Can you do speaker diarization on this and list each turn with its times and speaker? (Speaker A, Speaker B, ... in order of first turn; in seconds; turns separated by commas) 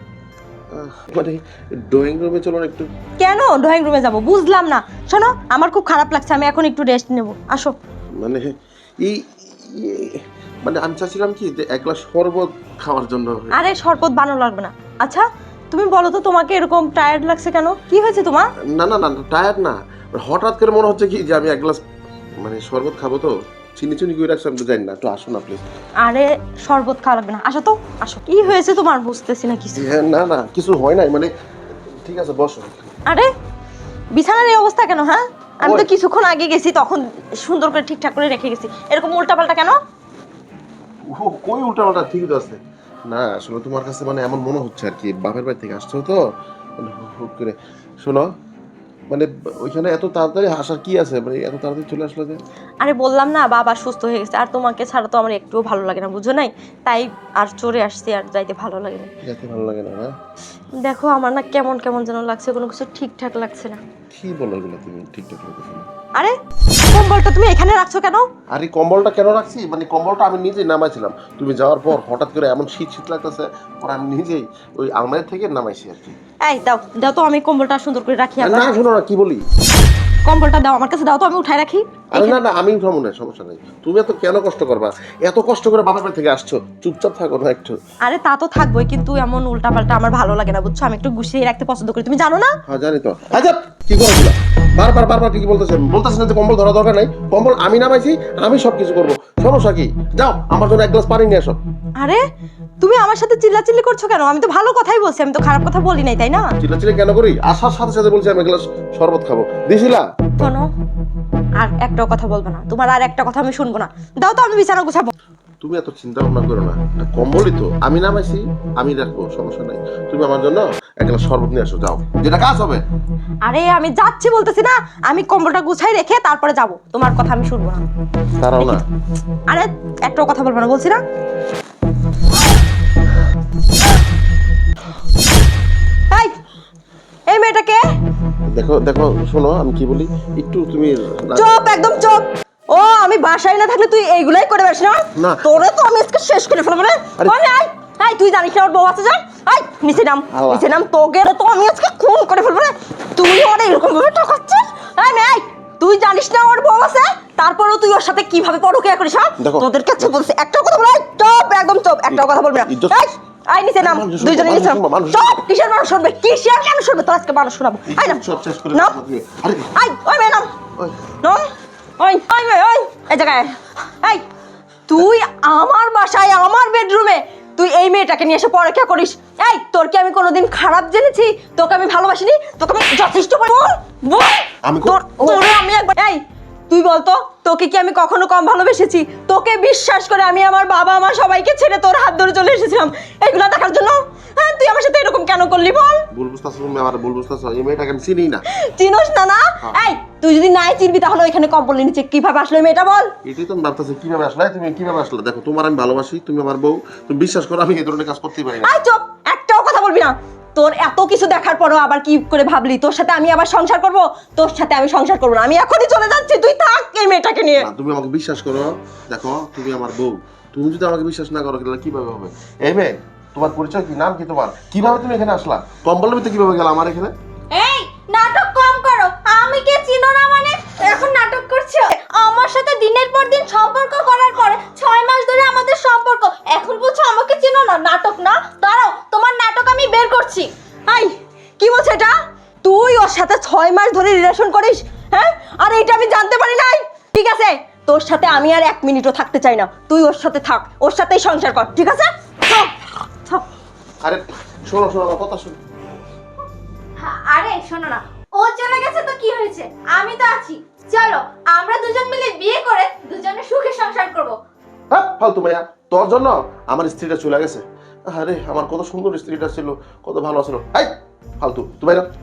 Speaker A: 0.7-2.9, Speaker B: 3.2-7.8, Speaker A: 8.2-13.7, Speaker B: 13.5-18.5, Speaker A: 18.7-21.8, Speaker A: 22.4-25.6, Speaker B: 26.0-29.9, Speaker A: 29.8-31.3, Speaker A: 32.0-32.9, Speaker B: 34.1-39.8, Speaker A: 35.6-35.9, Speaker A: 41.1-46.2, Speaker A: 46.8-48.3, Speaker A: 49.1-52.4, Speaker B: 52.8-59.1, Speaker A: 59.2-60.1, Speaker B: 60.8-63.8, Speaker A: 64.1-65.9, Speaker B: 66.9-68.2, Speaker A: 68.5-76.2, Speaker B: 76.5-78.8, Speaker A: 78.4-79.4, Speaker B: 80.3-82.4, Speaker A: 82.1-87.8, Speaker B: 88.0-92.5, Speaker A: 92.7-101.6, Speaker B: 102.8-106.5, Speaker A: 106.6-110.5, Speaker B: 110.4-110.7, Speaker B: 111.6-115.1, Speaker A: 115.6-122.8, Speaker B: 123.5-127.8, Speaker A: 128.4-128.8, Speaker B: 128.6-128.8, Speaker B: 129.5-131.0, Speaker B: 136.1-136.4, Speaker B: 137.3-137.8, Speaker A: 138.5-141.5, Speaker B: 141.3-168.2, Speaker A: 145.2-145.5, Speaker A: 150.3-150.7, Speaker A: 159.4-160.2, Speaker A: 162.1-163.0, Speaker A: 163.8-165.4, Speaker A: 167.9-169.7, Speaker B: 169.8-170.5, Speaker B: 171.2-174.2, Speaker B: 174.9-196.0, Speaker A: 184.7-185.4, Speaker A: 196.1-198.4, Speaker B: 198.5-203.1, Speaker A: 203.2-208.7, Speaker B: 208.6-217.7, Speaker A: 217.6-227.1, Speaker C: 227.5-240.5, Speaker B: 240.9-252.7, Speaker A: 254.0-255.6, Speaker C: 257.0-264.4, Speaker A: 264.9-272.1